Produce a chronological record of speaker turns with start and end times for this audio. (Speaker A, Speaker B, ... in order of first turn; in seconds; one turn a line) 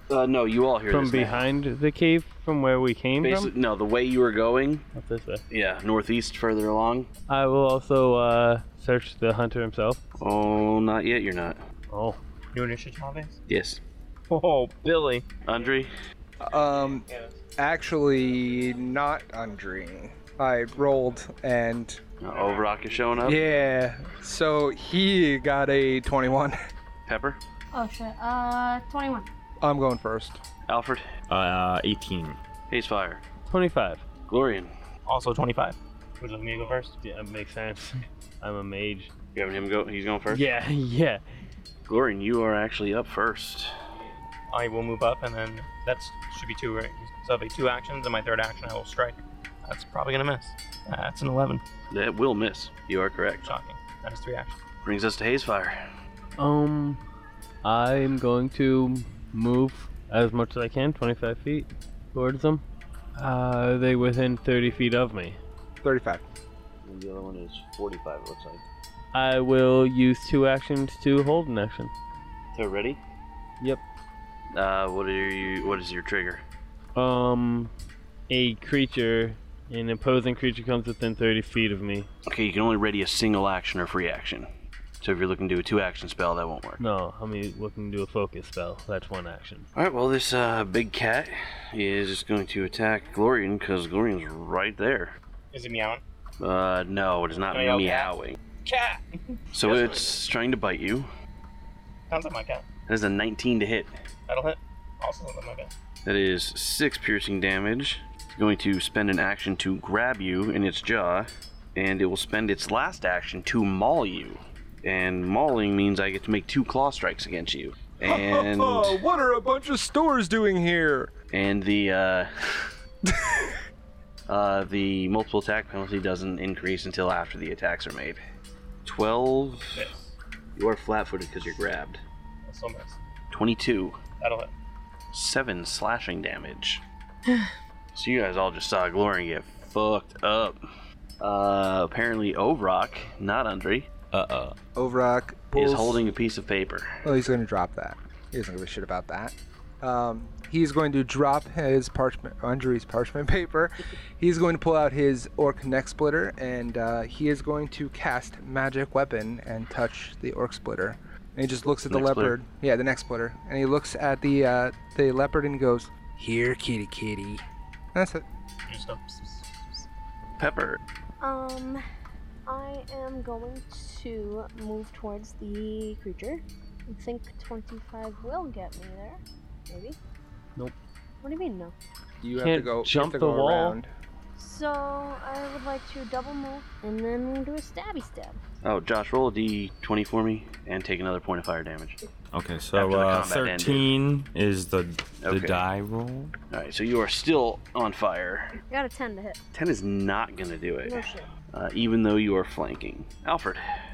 Speaker A: 0.1-1.5
Speaker B: 0.9-3.5
Speaker A: 3.2-4.9
Speaker B: 5.0-5.4
Speaker A: 5.5-7.1
Speaker B: 7.3-10.0
Speaker A: 10.2-11.6
Speaker B: 11.9-12.2
Speaker C: 12.5-13.4
Speaker A: 13.5-13.8
Speaker C: 14.3-15.3
Speaker A: 15.4-15.9
Speaker D: 16.4-17.1
Speaker D: 17.6-22.0
Speaker A: 22.2-23.4
Speaker D: 23.2-26.6
Speaker A: 27.1-27.4
Speaker E: 27.7-29.3
Speaker D: 29.6-30.4
Speaker A: 30.7-31.1
Speaker F: 31.3-32.4
Speaker A: 32.7-33.2
Speaker B: 33.5-34.0
Speaker A: 34.3-34.7
Speaker C: 35.1-37.0
Speaker B: 37.0-39.1
Speaker A: 39.4-40.5
Speaker B: 40.3-41.2
Speaker A: 41.9-43.7
Speaker C: 44.5-51.6
Speaker A: 51.9-53.5
Speaker C: 53.4-54.6
Speaker A: 54.8-55.8
Speaker B: 56.4-57.0
Speaker B: 57.6-62.6
Speaker B: 63.2-65.4
Speaker D: 65.8-66.2
Speaker A: 66.8-68.7
Speaker B: 69.1-71.9
Speaker A: 72.5-73.0
Speaker A: 74.5-76.4
Speaker B: 77.0-77.7
Speaker B: 78.3-82.1
Speaker A: 82.3-84.5
Speaker A: 85.0-86.8
Speaker B: 86.8-89.7
Speaker A: 89.8-95.2
Speaker C: 95.5-96.0
Speaker A: 96.4-98.4
Speaker C: 97.5-98.1
Speaker C: 98.7-100.1
Speaker A: 99.5-101.1
Speaker C: 102.1-102.7
Speaker A: 102.9-103.9
Speaker C: 104.3-105.7
Speaker A: 106.0-119.0
Speaker D: 118.0-121.1
Speaker A: 121.3-122.7
Speaker D: 123.1-123.6
Speaker A: 124.3-128.2
Speaker A: 128.8-129.9
Speaker C: 129.8-130.1
Speaker A: 130.6-132.0
Speaker C: 132.4-133.0
Speaker A: 133.3-134.0
Speaker C: 134.2-134.5
Speaker A: 135.1-136.8
Speaker E: 137.3-137.5
Speaker A: 137.9-140.6
Speaker A: 141.2-143.9
Speaker F: 144.1-144.6
Speaker D: 144.8-146.0
Speaker A: 145.5-146.9
Speaker D: 147.0-168.2
Speaker A: 161.9-162.4
Speaker C: 168.7-169.9
Speaker A: 170.4-170.8
Speaker E: 171.2-171.8
Speaker E: 172.5-180.0
Speaker E: 181.2-181.7
Speaker D: 182.2-183.9
Speaker B: 182.4-183.8
Speaker E: 184.4-188.4
Speaker A: 188.6-192.0
Speaker F: 192.3-196.3
Speaker A: 192.7-193.9
Speaker A: 195.2-195.6
Speaker A: 196.5-198.6
Speaker E: 198.7-199.4
Speaker A: 199.5-203.6
Speaker E: 200.8-201.3